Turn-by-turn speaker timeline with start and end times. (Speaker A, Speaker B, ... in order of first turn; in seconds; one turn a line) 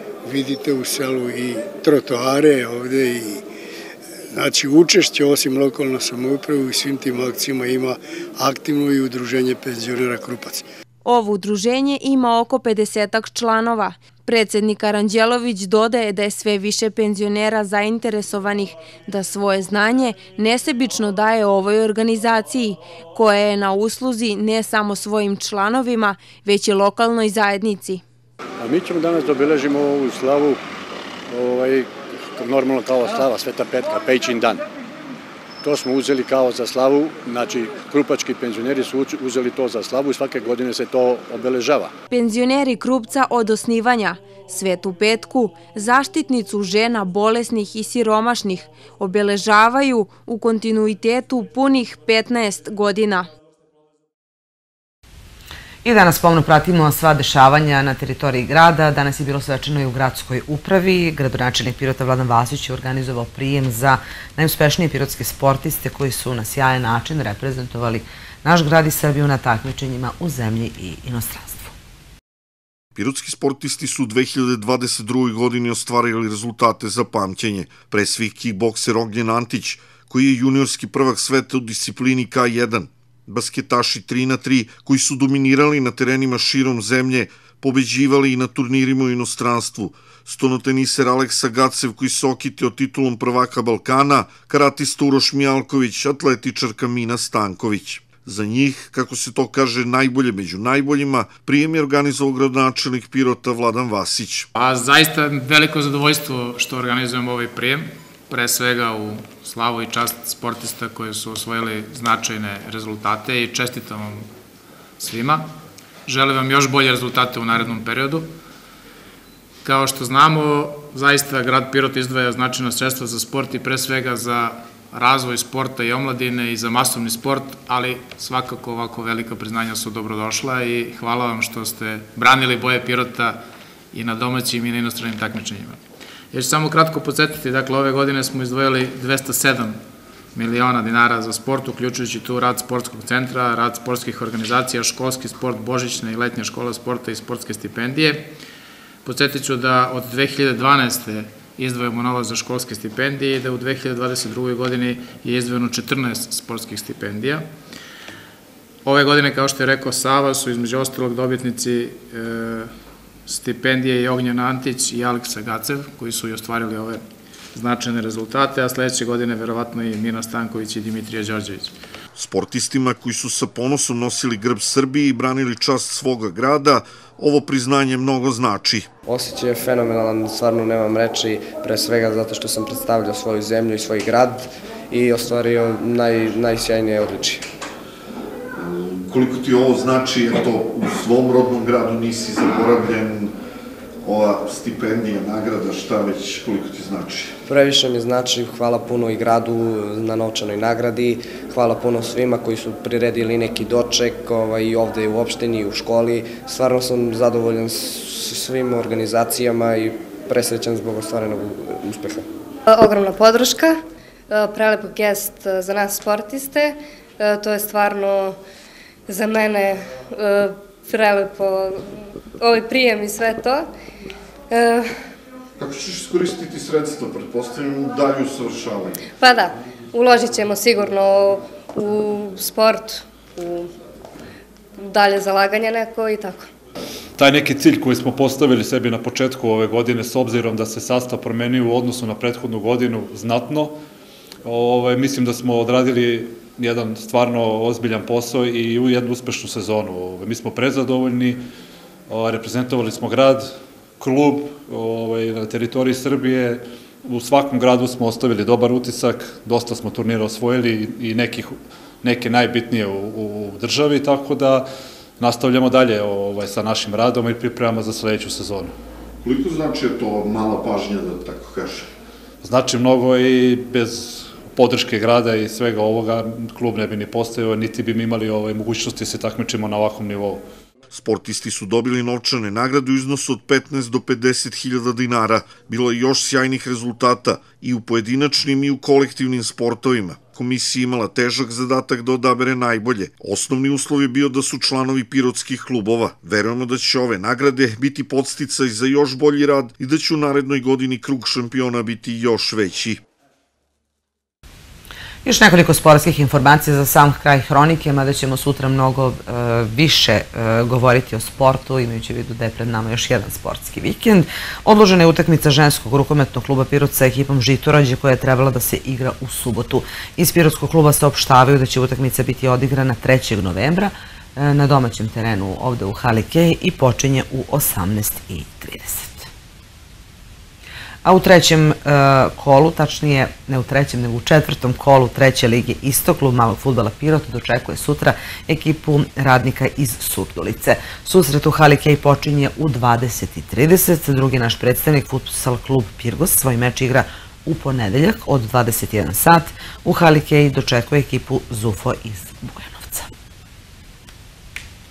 Speaker A: 0.2-3.4
Speaker A: 4.3-10.6
Speaker B: 11.1-28.0
Speaker C: 28.6-30.6
Speaker C: 31.3-34.6
Speaker C: 35.6-41.9
Speaker B: 42.1-53.3
Speaker D: 55.8-71.7
Speaker E: 73.0-104.5
Speaker F: 104.5-114.3
Speaker F: 115.0-118.3
Speaker F: 119.6-135.8
Speaker F: 136.3-139.8
Speaker F: 140.3-148.3
Speaker F: 149.0-157.5
Speaker F: 158.8-162.7
Speaker F: 163.2-171.8
Speaker E: 172.2-178.9
Speaker G: 179.1-187.4
Speaker E: 188.6-193.3
Speaker E: 194.0-197.3
Speaker G: 197.4-212.3
Speaker H: 212.7-218.4
Speaker H: 219.1-223.7
Speaker H: 224.5-225.0
Speaker E: 225.6-229.0
Speaker H: 229.2-233.7
Speaker H: 234.8-236.5
Speaker I: 237.2-243.8
Speaker I: 244.4-251.4
Speaker I: 252.1-264.7
Speaker I: 265.2-268.7
Speaker E: 269.2-271.9
Speaker I: 272.4-280.4
Speaker E: 280.9-303.0
Speaker D: 305.2-329.3
Speaker D: 331.0-353.1